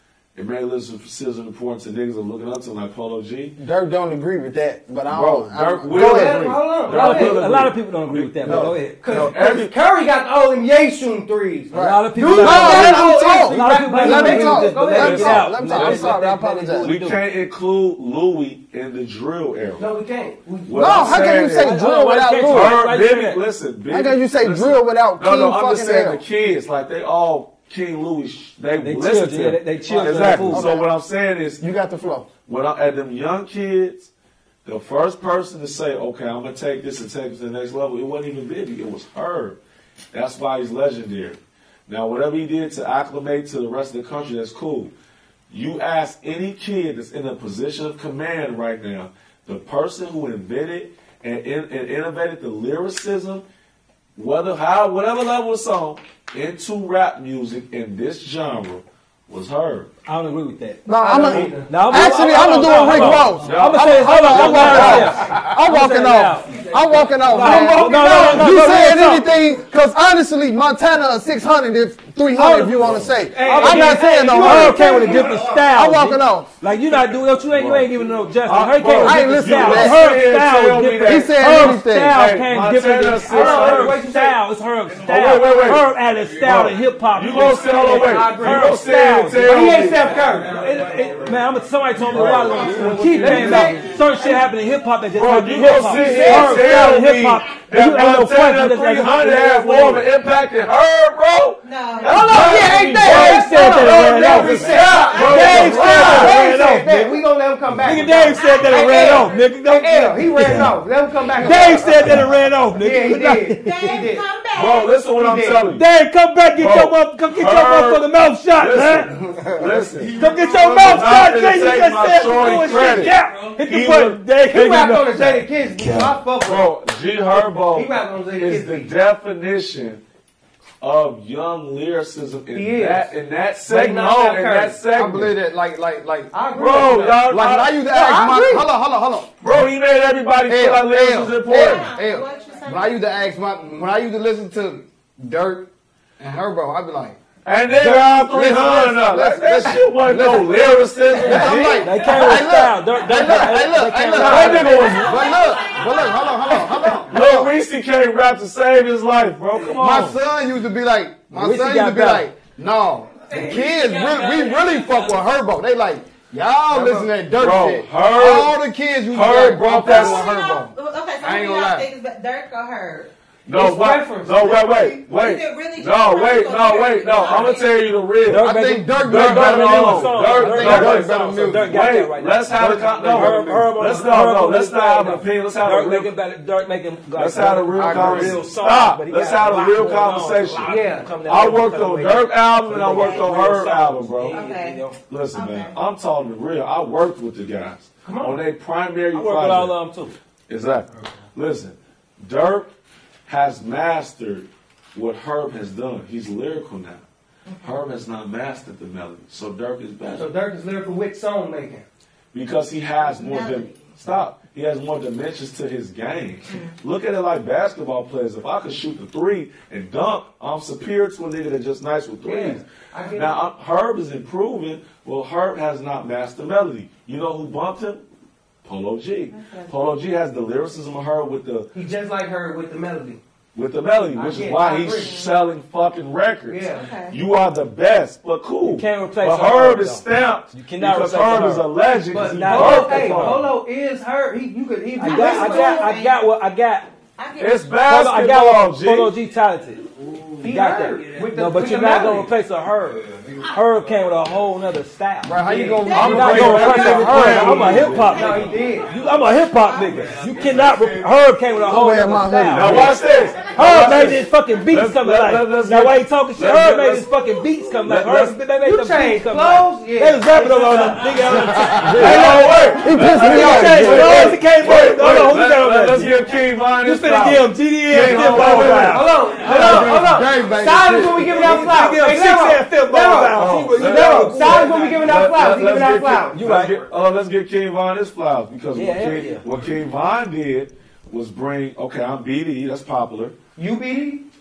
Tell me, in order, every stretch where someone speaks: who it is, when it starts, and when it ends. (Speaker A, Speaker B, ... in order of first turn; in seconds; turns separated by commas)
Speaker A: 0.3-3.6, Speaker B: 3.6-6.6, Speaker A: 5.1-9.8, Speaker C: 5.9-7.4, Speaker D: 6.9-9.0, Speaker B: 8.4-8.8, Speaker C: 9.0-15.8, Speaker B: 11.7-16.9, Speaker D: 11.7-17.2, Speaker A: 15.8-16.1, Speaker A: 16.8-19.9, Speaker C: 19.8-21.3, Speaker A: 20.7-21.8, Speaker B: 20.7-22.8, Speaker D: 21.3-23.4, Speaker A: 22.4-31.6, Speaker B: 23.9-26.2, Speaker D: 28.8-30.7, Speaker B: 29.9-30.9, Speaker B: 31.6-32.3, Speaker A: 32.5-34.1, Speaker A: 34.6-39.6, Speaker A: 40.1-44.9, Speaker A: 45.5-53.4, Speaker A: 54.2-59.9, Speaker D: 60.1-69.3, Speaker B: 60.9-76.5, Speaker C: 61.0-62.2, Speaker A: 62.3-65.2, Speaker E: 64.8-65.5, Speaker C: 67.2-68.6, Speaker D: 72.4-89.7, Speaker A: 72.8-73.2, Speaker C: 73.3-75.0, Speaker E: 74.8-75.7, Speaker A: 77.3-77.9, Speaker A: 78.4-84.0, Speaker B: 78.9-80.1, Speaker B: 81.0-82.2, Speaker C: 83.2-84.4, Speaker A: 85.0-85.9, Speaker A: 86.4-90.2, Speaker C: 87.7-90.6, Speaker D: 90.2-100.1, Speaker A: 92.0-93.8, Speaker C: 93.0-94.4, Speaker A: 95.2-106.4, Speaker C: 95.8-96.7, Speaker F: 101.6-103.0, Speaker C: 102.1-112.2, Speaker D: 102.3-107.2, Speaker E: 102.6-102.9, Speaker F: 104.7-106.0, Speaker E: 104.8-105.1, Speaker D: 107.8-110.7, Speaker F: 108.3-109.5, Speaker D: 111.4-114.0, Speaker C: 112.8-114.2, Speaker F: 113.6-115.0, Speaker A: 114.5-115.8, Speaker C: 115.2-115.7, Speaker D: 115.7-119.2, Speaker A: 116.6-124.2, Speaker E: 119.3-120.4, Speaker D: 120.2-126.0, Speaker C: 124.4-126.7, Speaker A: 126.4-130.0, Speaker C: 127.3-128.9, Speaker A: 130.8-135.4, Speaker C: 132.5-133.1, Speaker C: 133.6-134.8, Speaker E: 134.9-136.4, Speaker C: 136.3-137.3, Speaker A: 136.5-138.0, Speaker E: 137.1-139.3, Speaker C: 137.9-138.7, Speaker A: 139.4-141.9, Speaker E: 140.4-147.2, Speaker F: 141.5-143.1, Speaker A: 147.4-152.1, Speaker E: 147.8-157.5, Speaker D: 151.8-154.8, Speaker A: 154.2-155.4, Speaker F: 154.7-156.2, Speaker A: 157.1-160.2, Speaker E: 159.7-171.9, Speaker D: 161.3-162.3, Speaker A: 166.8-170.3, Speaker F: 169.7-173.1, Speaker A: 173.5-186.1, Speaker C: 173.5-175.0, Speaker E: 174.4-174.8, Speaker F: 175.1-177.8, Speaker D: 178.3-195.0, Speaker E: 178.3-181.9, Speaker E: 182.5-183.8, Speaker A: 187.2-194.4, Speaker E: 187.7-188.4, Speaker C: 190.7-191.1, Speaker F: 194.3-194.8, Speaker A: 195.0-199.8, Speaker F: 195.3-195.7, Speaker C: 198.0-198.4, Speaker D: 199.1-200.2, Speaker A: 200.5-202.7, Speaker A: 203.3-207.1, Speaker F: 207.5-207.8, Speaker A: 207.6-210.3, Speaker C: 210.1-211.8, Speaker A: 212.3-228.0, Speaker F: 213.0-213.9, Speaker C: 222.2-223.4, Speaker A: 228.6-231.7, Speaker F: 229.3-229.8, Speaker C: 231.7-233.2, Speaker A: 233.6-243.6, Speaker C: 234.1-235.2, Speaker F: 235.0-235.3, Speaker C: 236.5-236.9, Speaker F: 236.7-237.2, Speaker D: 238.6-243.5, Speaker C: 242.1-245.8, Speaker D: 245.0-246.9, Speaker F: 245.0-246.2, Speaker F: 247.2-247.8, Speaker A: 247.4-249.2, Speaker D: 247.8-249.9, Speaker C: 250.4-252.3, Speaker D: 250.4-262.9, Speaker E: 255.2-257.9, Speaker C: 255.4-255.9, Speaker F: 255.8-256.2, Speaker A: 255.9-258.4, Speaker C: 256.8-258.9, Speaker B: 257.1-257.6, Speaker F: 258.0-258.7, Speaker F: 259.6-260.1, Speaker B: 261.7-263.0, Speaker A: 262.5-267.1, Speaker D: 263.4-272.5, Speaker A: 267.8-268.4, Speaker C: 268.6-271.1, Speaker E: 271.3-272.2, Speaker B: 271.8-274.4, Speaker A: 271.9-280.2, Speaker C: 272.0-273.2, Speaker D: 273.0-276.1, Speaker D: 276.8-280.1, Speaker C: 278.4-286.4, Speaker E: 279.6-281.4, Speaker D: 281.2-285.1, Speaker A: 283.3-293.4, Speaker D: 286.3-286.8, Speaker D: 288.8-289.4, Speaker C: 293.6-294.2